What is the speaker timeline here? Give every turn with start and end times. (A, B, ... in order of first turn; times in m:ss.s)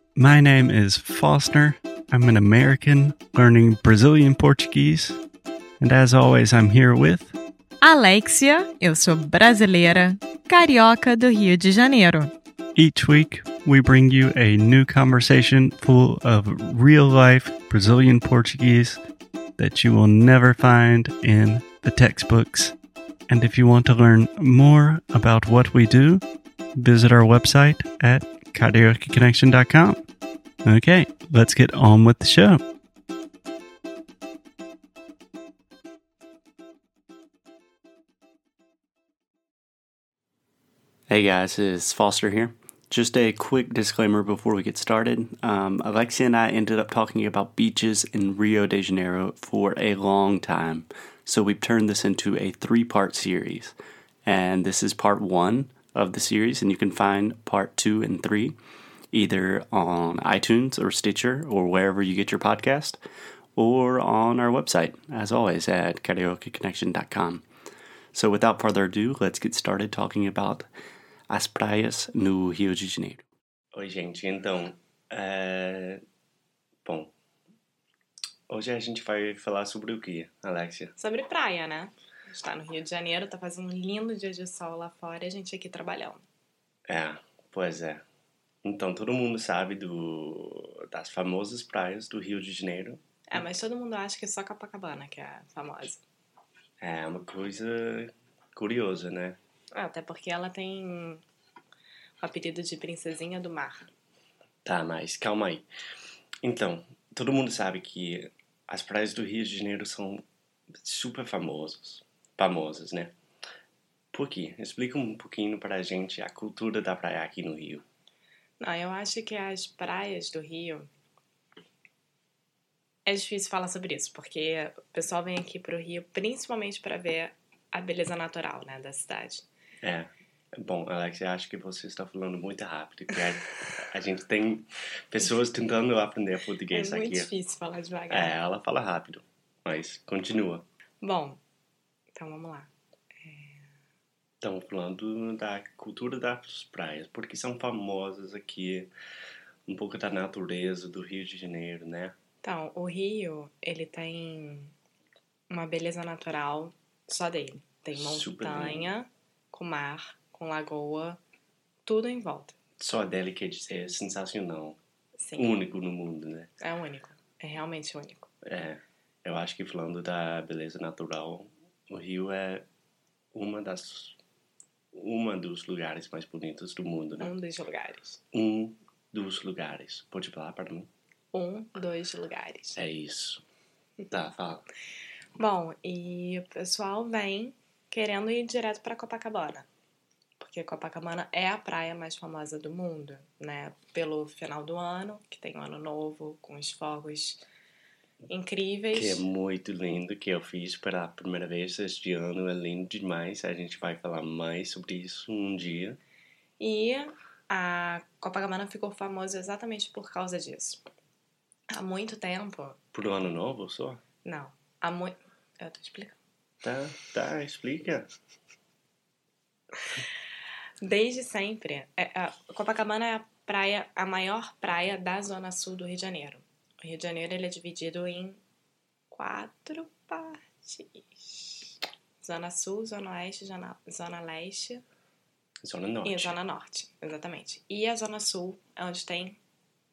0:00.2-0:05.2 A
0:05.8-0:07.3 A
0:07.8-0:12.3 B
0:12.8-0:19.0 A
0:19.6-0:22.7 A
0:23.3-0:26.2 A
0:26.8-0:30.0 A
0:30.6-0:32.6 A
0:41.1-0:53.7 A
0:54.2-0:58.6 A
0:59.1-1:03.0 A
1:03.6-1:07.4 A
1:08.1-1:10.7 A
1:11.3-1:13.2 A
1:13.7-1:16.0 C
1:16.8-1:17.1 C
1:18.5-1:20.9 C
1:21.0-1:26.2 D
1:26.9-1:28.0 C
1:28.6-1:33.4 C
1:33.3-1:36.0 D
1:36.8-1:39.4 C
1:39.7-1:41.2 D
1:42.2-1:43.9 D
1:44.6-1:45.6 C
1:46.4-1:50.2 C
1:50.8-1:53.1 C
1:54.1-1:57.8 C
1:58.6-2:00.9 D
2:03.0-2:09.5 D
2:09.8-2:17.3 C
2:16.7-2:18.4 D
2:18.1-2:20.6 C
2:21.0-2:21.4 D
2:22.1-2:22.7 D
2:23.2-2:23.6 D
2:24.4-2:28.9 C
2:29.7-2:32.1 C
2:32.4-2:34.7 D
2:35.5-2:41.2 D
2:37.9-2:38.9 C
2:41.8-2:42.6 D
2:42.8-2:44.8 C
2:45.2-2:45.6 D
2:45.4-2:46.5 C
2:46.6-2:48.3 D
2:48.4-2:52.7 C
2:53.3-2:54.2 C
2:54.9-2:57.3 C
2:57.2-2:58.2 D
2:58.3-3:00.9 C
3:01.3-3:02.8 D
3:02.7-3:03.4 C
3:04.1-3:04.6 C
3:05.4-3:09.7 D
3:10.4-3:17.4 D
3:18.3-3:19.2 D
3:18.9-3:26.0 C
3:26.6-3:30.8 D
3:31.7-3:32.8 D
3:32.9-3:34.0 C
3:34.2-3:36.2 D
3:36.6-3:38.1 C
3:40.8-3:48.4 D
3:49.1-3:54.8 D
3:55.6-3:56.4 C
3:56.0-3:59.4 D